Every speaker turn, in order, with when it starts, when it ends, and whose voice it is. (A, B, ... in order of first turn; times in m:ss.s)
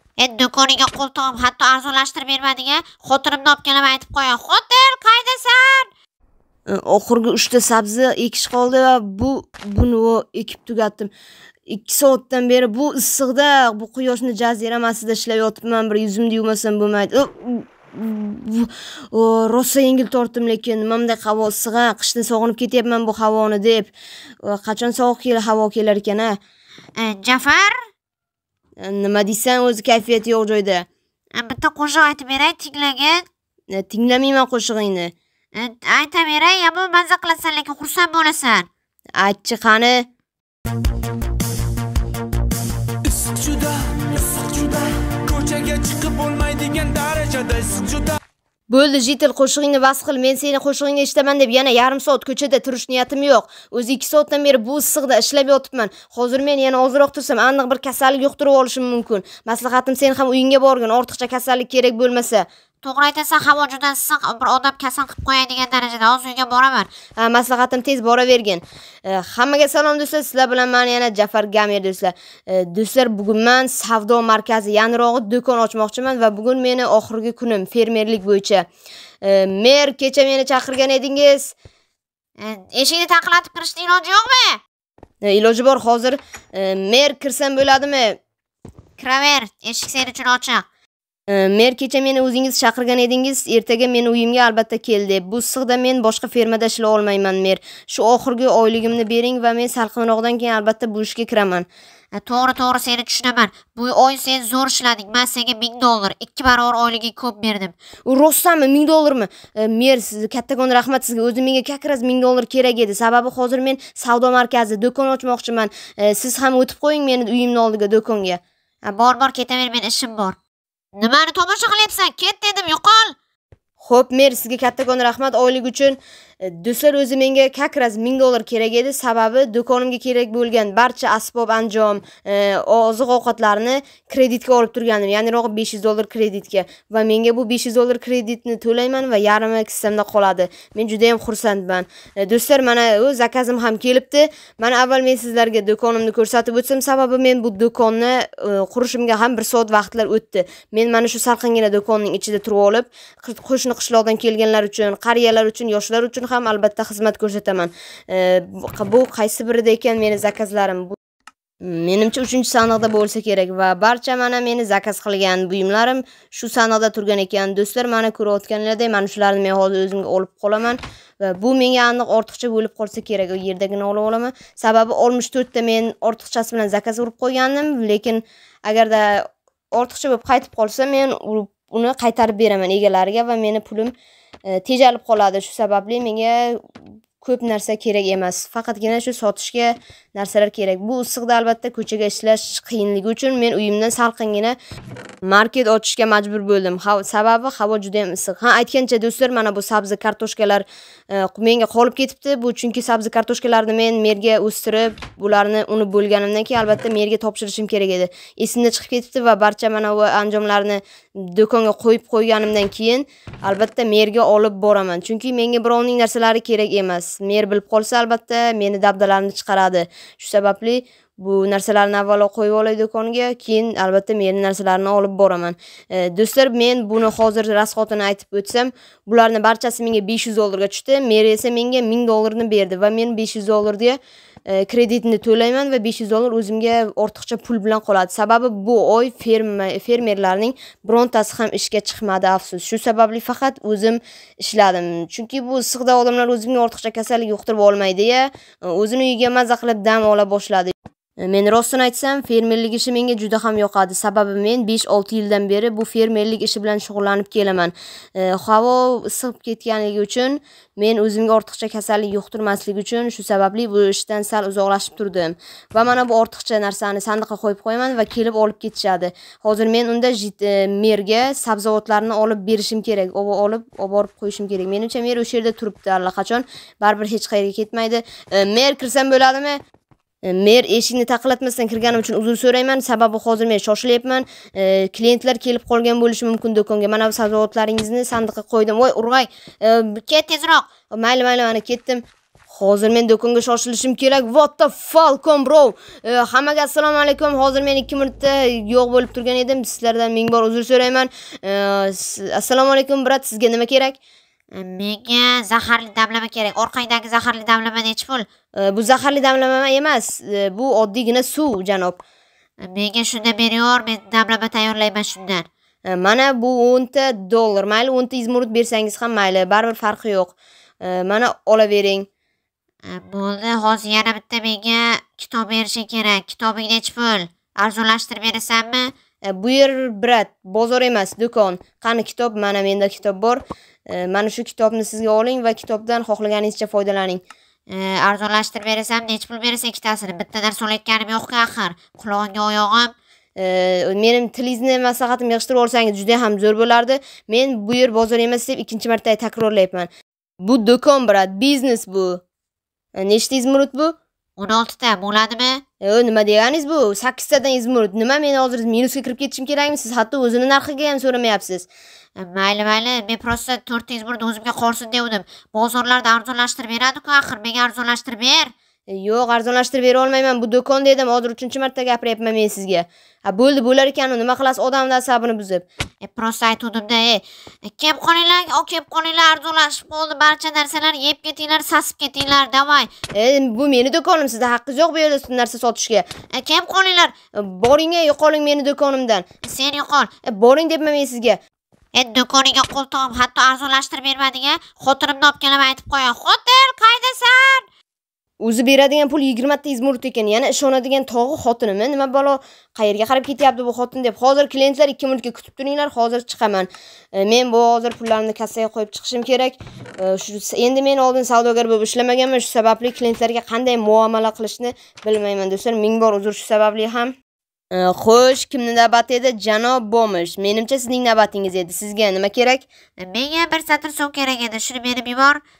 0:00.2-0:05.9 A
0:06.7-0:11.1 B
0:11.7-0:26.4 B
0:27.0-0:27.8 A
0:28.8-0:30.9 B
0:31.4-0:33.2 A
0:33.7-0:35.1 B
0:35.6-0:38.7 A
0:39.2-0:40.1 B
0:43.1-0:48.2 C
0:48.7-1:02.4 B
1:02.8-1:06.9 A
1:07.2-1:18.7 B
1:19.2-1:21.5 B
1:22.4-1:24.6 A
1:25.2-1:28.2 B
1:29.0-1:30.7 A
1:31.3-1:41.7 B
1:42.1-1:47.7 A
1:48.0-1:58.4 B
1:58.8-2:00.4 A
2:01.0-2:03.1 A
2:03.8-2:41.0 B
2:41.6-3:03.9 B
3:04.5-3:06.6 B
3:07.2-3:14.6 B
3:15.2-4:39.6 B
4:40.2-5:04.0 B
4:50.1-4:50.7 A
5:04.5-5:08.3 A
5:08.5-5:12.0 B
5:12.6-5:15.5 A
5:15.8-5:22.1 B
5:22.8-5:28.9 A
5:29.2-5:37.2 B
5:37.7-5:42.9 A
5:43.4-5:49.9 B
5:50.4-5:52.2 B
5:52.9-5:54.0 B
5:54.4-5:55.6 A
5:55.8-6:01.7 B
6:02.2-6:08.5 A
6:08.9-6:15.6 B
6:16.0-6:22.9 A
6:23.1-6:26.1 B
6:26.3-6:27.2 A
6:27.3-6:29.2 B
6:29.4-6:30.1 A
6:30.2-6:31.4 B
6:31.9-6:37.6 A
6:38.4-6:57.1 B
6:57.7-7:02.7 B
7:03.0-7:05.4 A